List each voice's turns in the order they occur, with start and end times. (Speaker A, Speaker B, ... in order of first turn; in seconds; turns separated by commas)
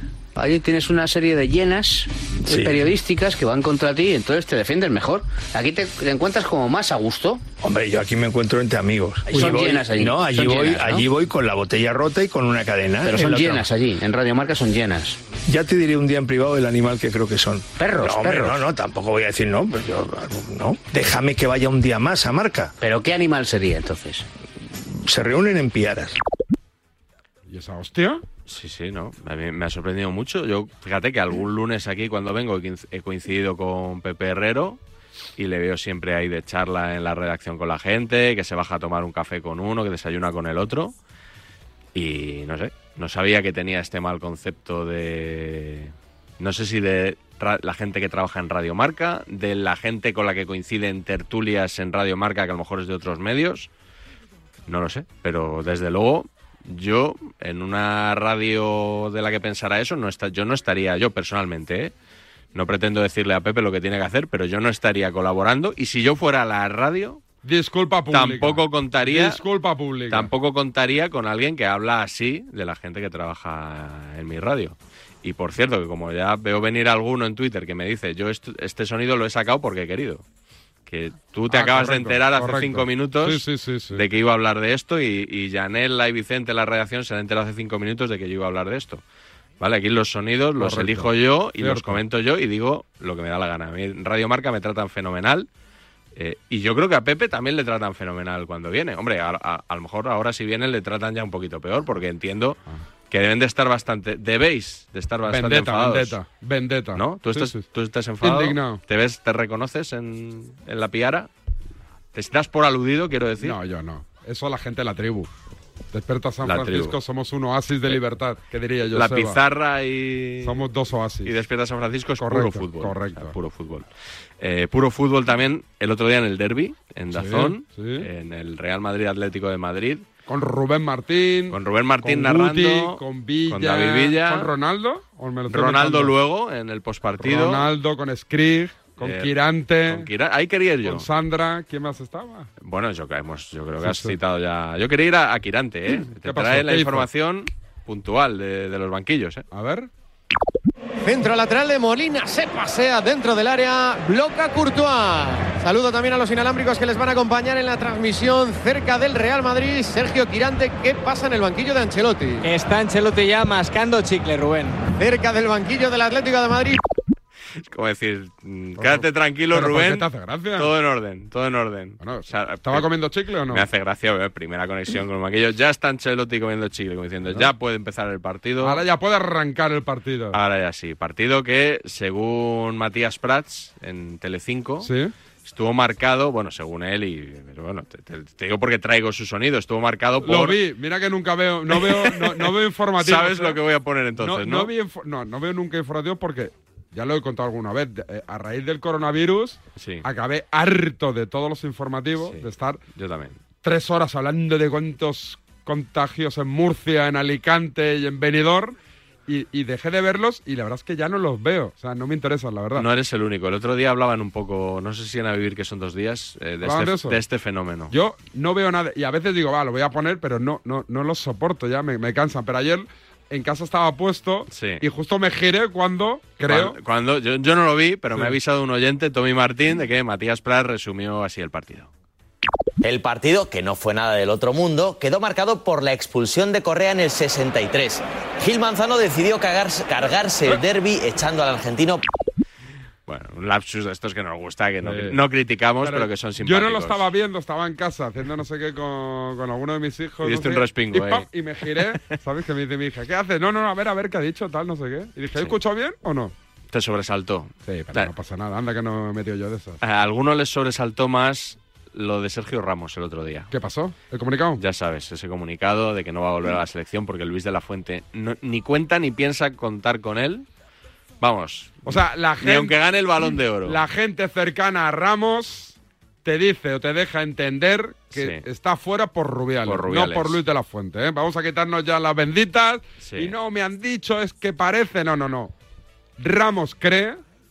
Speaker A: 0.3-7.4, Speaker B: 2.5-2.8, Speaker B: 7.6-13.7, Speaker A: 9.3-11.1, Speaker A: 13.0-15.2, Speaker B: 15.4-22.7, Speaker A: 17.8-18.6, Speaker A: 22.8-24.2, Speaker B: 24.9-26.2, Speaker C: 27.5-28.2, Speaker D: 28.4-34.8, Speaker D: 35.4-40.9, Speaker D: 41.9-53.7, Speaker D: 54.7-61.9, Speaker D: 62.5-67.2, Speaker C: 67.4-70.3, Speaker D: 68.1-69.4, Speaker D: 70.1-80.2, Speaker D: 80.8-89.0, Speaker C: 81.5-84.0, Speaker D: 89.6-95.5, Speaker C: 90.6-92.0, Speaker D: 96.1-106.2, Speaker C: 105.3-107.6, Speaker D: 106.9-111.3, Speaker C: 108.2-108.8, Speaker D: 112.1-113.6, Speaker C: 113.4-115.3, Speaker C: 115.9-119.4, Speaker D: 116.4-117.0, Speaker D: 118.9-120.7, Speaker C: 120.4-121.4, Speaker D: 121.2-123.8, Speaker C: 122.2-123.3, Speaker D: 124.4-130.1, Speaker C: 127.1-128.1, Speaker C: 130.3-136.1, Speaker D: 131.5-134.5, Speaker D: 135.5-137.7, Speaker C: 137.2-140.1, Speaker D: 139.0-141.1, Speaker C: 140.8-142.5, Speaker D: 142.6-149.4, Speaker C: 143.8-144.2, Speaker C: 146.1-147.1, Speaker C: 149.5-149.9, Speaker E: 151.0-162.4, Speaker F: 162.4-164.8, Speaker E: 165.0-166.8, Speaker D: 167.7-172.9, Speaker C: 168.8-170.7, Speaker C: 172.0-173.7, Speaker D: 173.5-178.8, Speaker C: 178.6-180.4, Speaker D: 180.3-184.9, Speaker C: 184.8-185.1, Speaker D: 185.4-190.6, Speaker C: 190.2-193.6, Speaker D: 191.7-194.7, Speaker C: 194.2-202.8, Speaker D: 199.8-200.1, Speaker D: 202.2-203.4, Speaker C: 203.6-208.7, Speaker C: 209.3-212.9, Speaker D: 212.8-217.9, Speaker C: 216.6-217.2, Speaker C: 217.9-226.8, Speaker D: 224.5-224.8, Speaker D: 226.4-231.9, Speaker G: 232.8-242.0, Speaker D: 243.1-247.1, Speaker C: 244.8-245.2, Speaker C: 245.8-256.3, Speaker D: 250.2-251.3, Speaker D: 251.8-252.2, Speaker D: 256.7-258.1, Speaker C: 257.6-259.8, Speaker D: 259.8-263.5, Speaker C: 263.5-264.6, Speaker D: 264.6-270.4, Speaker D: 271.2-273.8, Speaker C: 271.8-285.5, Speaker D: 278.1-278.4, Speaker D: 279.6-280.4, Speaker D: 283.0-283.3, Speaker C: 286.2-287.2